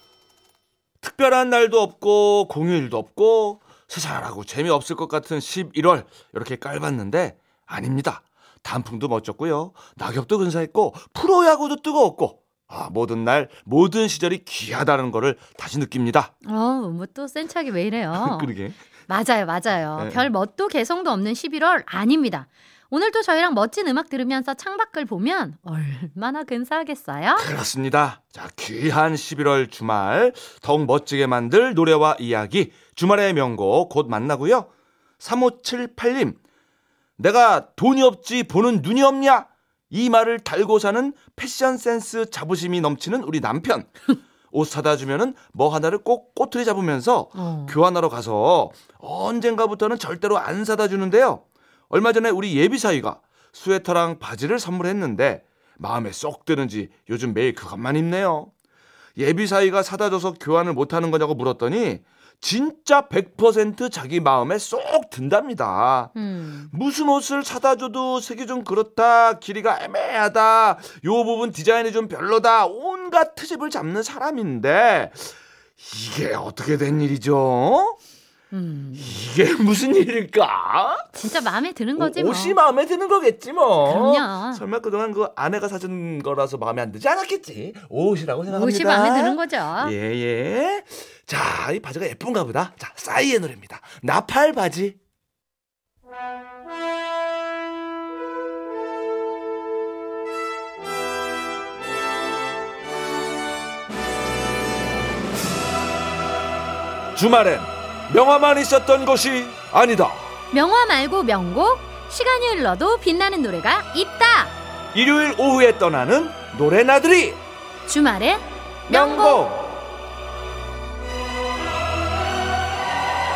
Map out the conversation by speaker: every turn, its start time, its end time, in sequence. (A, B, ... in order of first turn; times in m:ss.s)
0:01.0-0:16.3 A
0:16.4-0:18.5 B
0:18.1-0:18.8 A
0:19.1-0:27.5 B
0:20.0-0:20.3 A
0:27.4-0:34.7 A
0:35.2-0:36.4 A
0:37.2-0:58.5 A
0:47.3-0:47.8 B
0:59.2-1:06.1 A
1:06.1-1:06.7 B
1:06.7-1:18.0 A
1:18.5-1:19.1 B
1:19.0-1:21.2 A
1:21.1-1:22.6 B
1:22.0-1:35.0 A
1:23.8-1:24.6 B
1:28.5-1:29.9 B
1:47.1-1:50.3 A
1:50.5-1:54.5 B
1:54.9-1:57.4 A
1:57.9-1:59.4 B
1:58.9-1:59.6 A